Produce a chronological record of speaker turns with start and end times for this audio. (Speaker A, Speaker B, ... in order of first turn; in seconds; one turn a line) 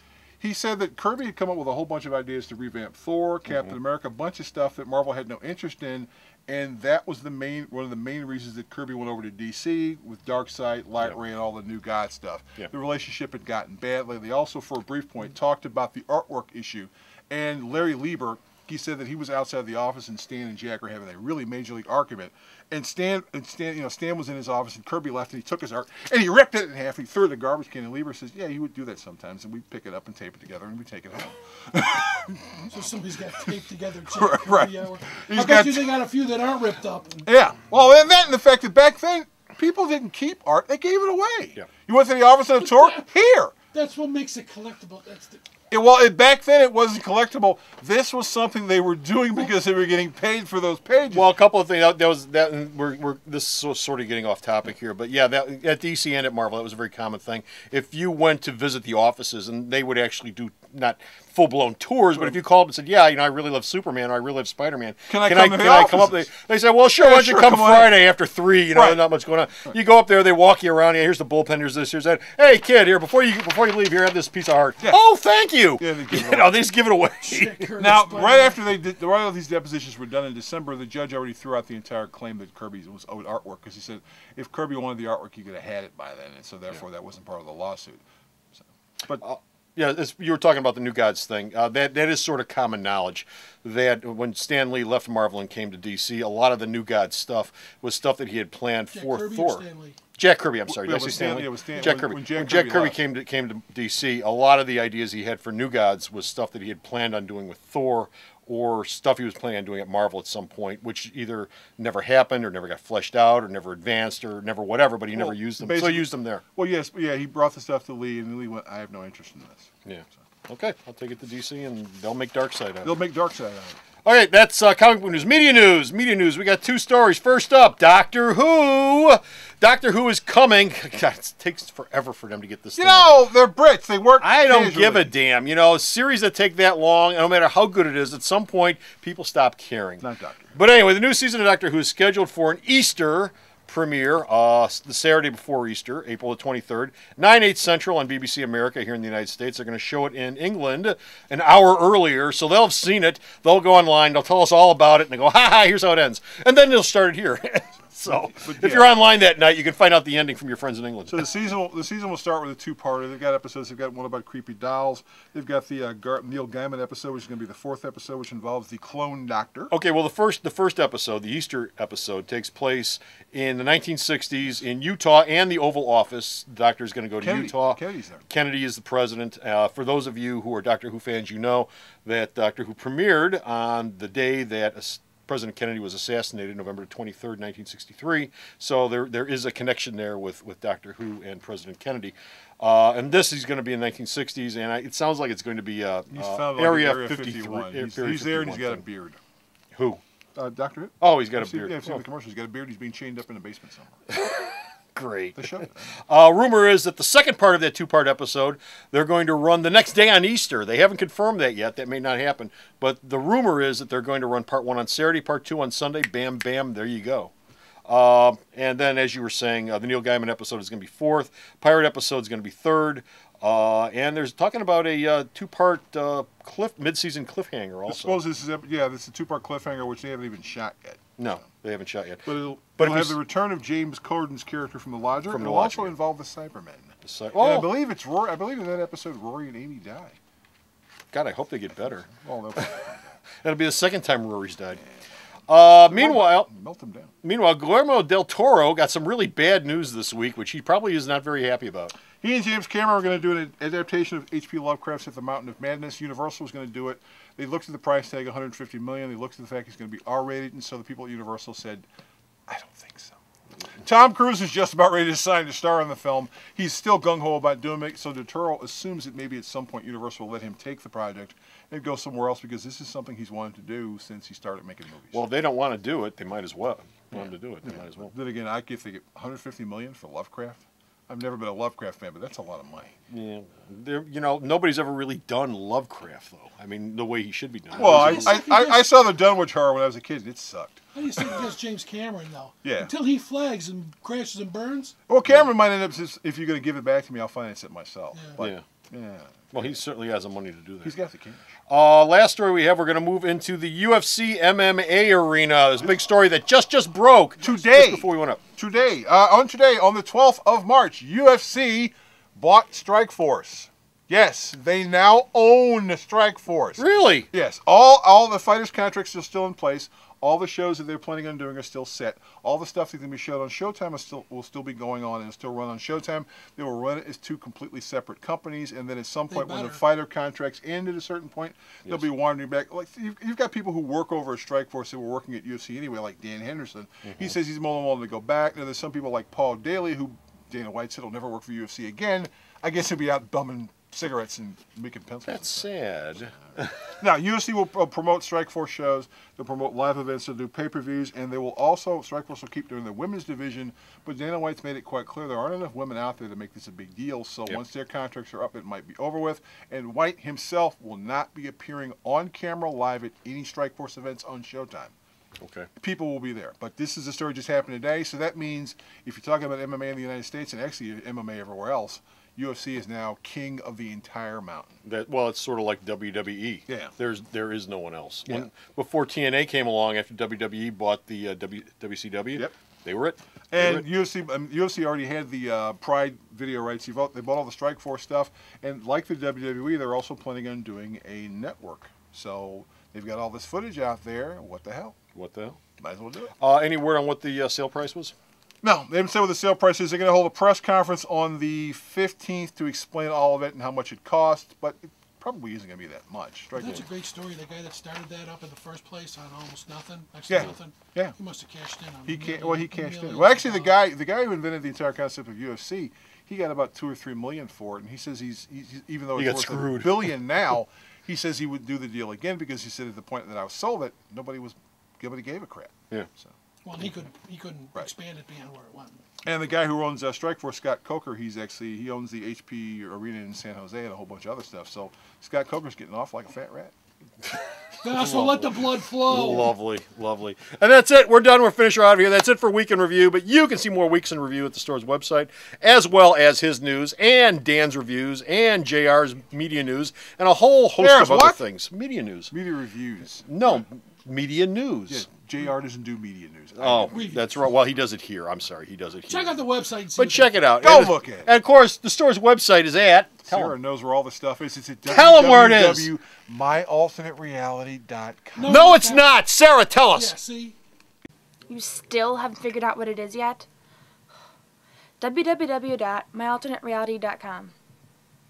Speaker A: 0.4-32.7
Speaker B: 32.7-37.2
Speaker A: 34.0-35.9
Speaker A: 37.2-43.5
Speaker B: 42.6-43.0
Speaker B: 43.7-45.4
Speaker A: 45.7-51.3
Speaker C: 51.1-77.7
Speaker A: 65.1-66.2
Speaker A: 67.0-68.0
Speaker A: 68.7-69.0
Speaker A: 75.8-76.5
Speaker B: 77.2-78.5
Speaker A: 77.8-88.0
Speaker A: 88.5-89.2
Speaker C: 89.1-99.6
Speaker B: 98.9-100.0
Speaker C: 100.2-116.4
Speaker A: 100.7-103.0
Speaker A: 115.1-119.7
Speaker C: 119.8-123.0
Speaker A: 122.8-123.8
Speaker C: 124.0-133.1
Speaker A: 132.8-135.1
Speaker C: 134.2-161.2
Speaker A: 140.0-140.5
Speaker A: 158.2-158.9
Speaker A: 161.1-169.7
Speaker C: 169.7-198.8
Speaker A: 177.2-178.2
Speaker A: 196.1-199.2
Speaker C: 199.8-200.0
Speaker A: 200.3-203.9
Speaker C: 201.0-202.0
Speaker C: 204.1-217.3
Speaker A: 205.3-205.8
Speaker C: 217.9-228.2
Speaker A: 227.9-231.1
Speaker C: 231.2-233.2
Speaker A: 232.2-240.2
Speaker C: 235.3-235.9
Speaker C: 237.0-237.7
Speaker C: 241.1-242.8
Speaker A: 241.9-243.1
Speaker C: 243.4-244.8
Speaker C: 245.5-246.5
Speaker A: 245.9-247.1
Speaker C: 247.2-251.9
Speaker A: 252.2-261.8
Speaker A: 262.5-263.2
Speaker A: 263.8-275.2
Speaker C: 275.1-278.1
Speaker A: 277.6-282.9
Speaker C: 283.1-288.4
Speaker A: 287.8-291.4
Speaker B: 287.8-288.9
Speaker B: 290.9-294.9
Speaker A: 292.6-292.9
Speaker A: 295.1-299.8
Speaker C: 299.5-300.9
Speaker A: 300.8-301.5
Speaker C: 301.7-308.4
Speaker A: 307.4-345.6
Speaker C: 316.8-317.3
Speaker B: 329.3-329.8
Speaker C: 337.1-337.3
Speaker C: 345.2-346.9
Speaker A: 347.0-364.9
Speaker C: 365.4-365.7
Speaker A: 365.8-374.8
Speaker C: 374.8-383.8
Speaker A: 376.7-376.9
Speaker A: 383.5-394.9
Speaker C: 395.1-395.6
Speaker A: 395.8-396.3
Speaker C: 396.4-398.1
Speaker A: 398.6-406.9
Speaker B: 406.5-413.7
Speaker A: 410.3-411.1
Speaker A: 412.1-426.3
Speaker C: 419.1-420.1
Speaker B: 426.6-429.0
Speaker A: 429.2-436.7
Speaker B: 437.8-439.5
Speaker C: 437.9-438.5
Speaker C: 439.1-452.3
Speaker A: 450.8-451.4
Speaker A: 452.3-453.6
Speaker C: 453.2-455.1
Speaker A: 454.9-456.9
Speaker C: 456.6-459.4
Speaker B: 456.9-457.5
Speaker B: 459.1-460.5
Speaker C: 459.9-463.5
Speaker A: 460.6-461.3
Speaker A: 463.2-468.6
Speaker C: 464.9-465.9
Speaker B: 468.4-469.1
Speaker C: 468.4-470.1
Speaker B: 469.9-470.6
Speaker D: 471.5-473.4
Speaker D: 475.0-477.5